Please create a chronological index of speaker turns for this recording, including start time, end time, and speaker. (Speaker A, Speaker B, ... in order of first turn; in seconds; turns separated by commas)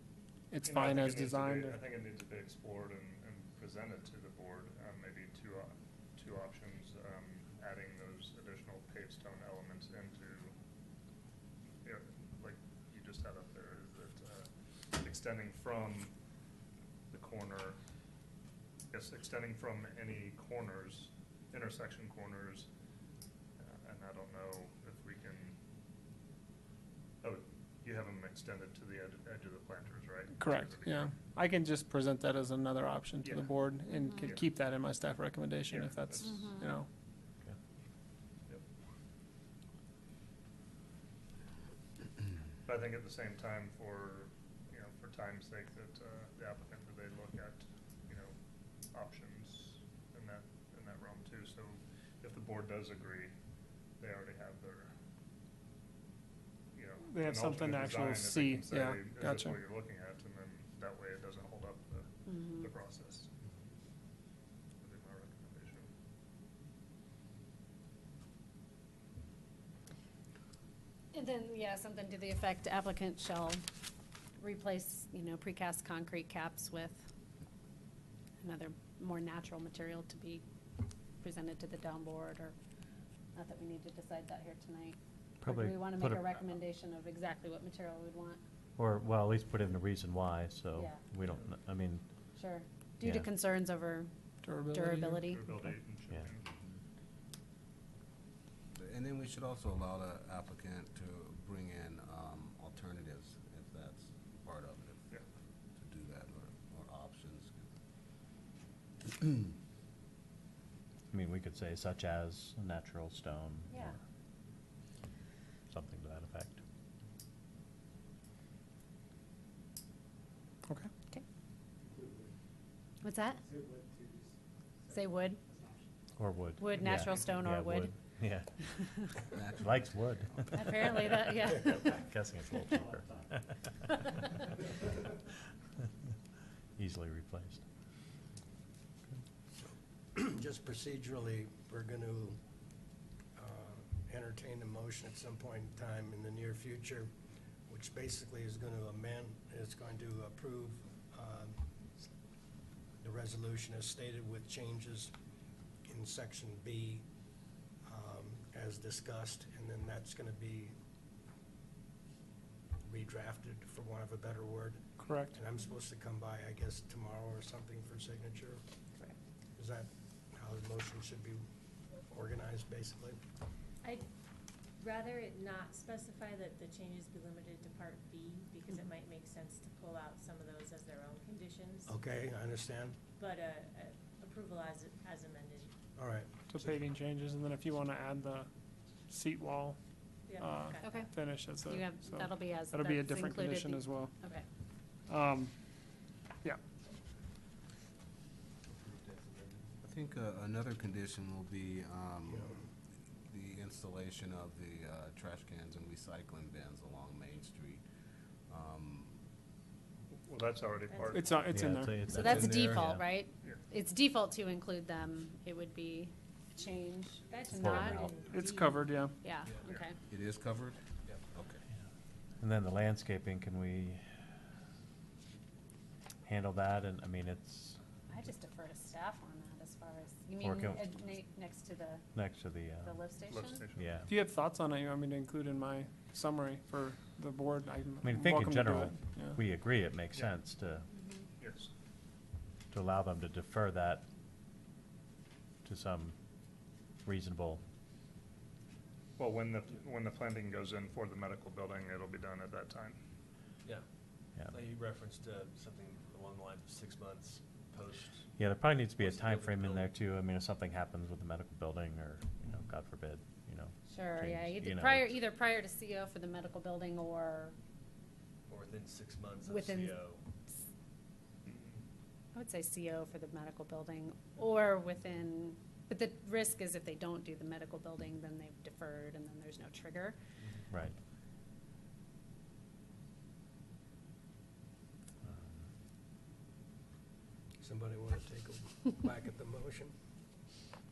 Speaker A: 0.5-1.8, Speaker B: 0.6-10.5, Speaker B: 11.8-16.1, Speaker B: 17.1-17.8, Speaker B: 18.9-22.7, Speaker B: 23.6-25.6, Speaker B: 27.2-31.1, Speaker A: 30.4-36.9, Speaker B: 33.2-34.5, Speaker C: 33.9-34.2, Speaker B: 35.7-36.5, Speaker C: 36.3-36.7, Speaker B: 42.7-48.4, Speaker B: 48.9-53.3, Speaker B: 54.0-54.9, Speaker B: 56.8-63.3, Speaker A: 57.1-59.6, Speaker C: 62.3-62.7, Speaker B: 64.8-65.9, Speaker C: 71.1-73.6, Speaker C: 74.4-77.1, Speaker C: 78.4-80.4, Speaker C: 81.2-82.5, Speaker C: 83.3-88.4, Speaker D: 85.4-86.4, Speaker D: 88.8-92.1, Speaker C: 90.8-91.0, Speaker C: 92.3-94.1, Speaker D: 93.0-93.3, Speaker A: 94.4-95.7, Speaker C: 94.7-95.4, Speaker B: 95.1-96.4, Speaker E: 98.7-105.1, Speaker E: 105.8-107.7, Speaker D: 111.1-113.9, Speaker D: 115.7-116.6, Speaker C: 123.0-123.6, Speaker C: 124.9-125.4, Speaker D: 126.2-134.2, Speaker C: 126.6-127.9, Speaker C: 128.6-129.2, Speaker E: 129.3-129.6, Speaker C: 130.5-131.9, Speaker D: 136.8-137.6, Speaker F: 139.6-142.4, Speaker F: 143.3-147.1, Speaker F: 147.7-152.1, Speaker F: 153.0-155.1, Speaker F: 155.9-157.1, Speaker F: 157.8-160.8, Speaker F: 162.8-168.6, Speaker A: 165.0-165.3, Speaker F: 169.6-171.4, Speaker F: 172.0-173.2, Speaker G: 173.8-174.1, Speaker G: 174.8-181.9, Speaker F: 181.9-183.0, Speaker G: 183.2-185.7, Speaker F: 186.0-186.8, Speaker A: 186.5-196.6, Speaker G: 190.3-191.2, Speaker C: 190.8-191.1, Speaker C: 191.7-194.5, Speaker H: 198.8-199.7, Speaker E: 199.8-202.6, Speaker F: 202.3-202.6, Speaker E: 203.3-207.8, Speaker E: 208.5-209.2, Speaker B: 210.2-211.6, Speaker G: 210.9-211.2, Speaker A: 211.1-211.9, Speaker D: 211.5-213.0, Speaker C: 212.1-218.1, Speaker E: 212.2-213.0, Speaker G: 217.3-219.1, Speaker D: 217.5-218.2, Speaker A: 218.3-219.1, Speaker C: 219.1-220.0, Speaker E: 220.1-221.6, Speaker D: 222.4-224.1, Speaker D: 226.2-227.8, Speaker C: 228.1-232.1, Speaker D: 230.4-230.8, Speaker D: 232.1-233.0, Speaker C: 232.8-233.6, Speaker B: 233.3-234.1, Speaker D: 233.7-234.1, Speaker A: 234.1-239.4, Speaker D: 238.0-240.9, Speaker B: 241.4-241.7, Speaker D: 242.7-244.0, Speaker D: 245.7-246.2, Speaker D: 247.0-247.6, Speaker B: 249.2-253.0, Speaker H: 253.6-258.3, Speaker D: 258.4-265.2, Speaker H: 259.0-259.9, Speaker C: 263.9-267.6, Speaker H: 268.5-270.2, Speaker C: 269.5-269.9, Speaker B: 271.4-271.8, Speaker C: 272.3-280.2, Speaker D: 280.7-281.0, Speaker D: 285.2-285.7, Speaker F: 287.6-289.9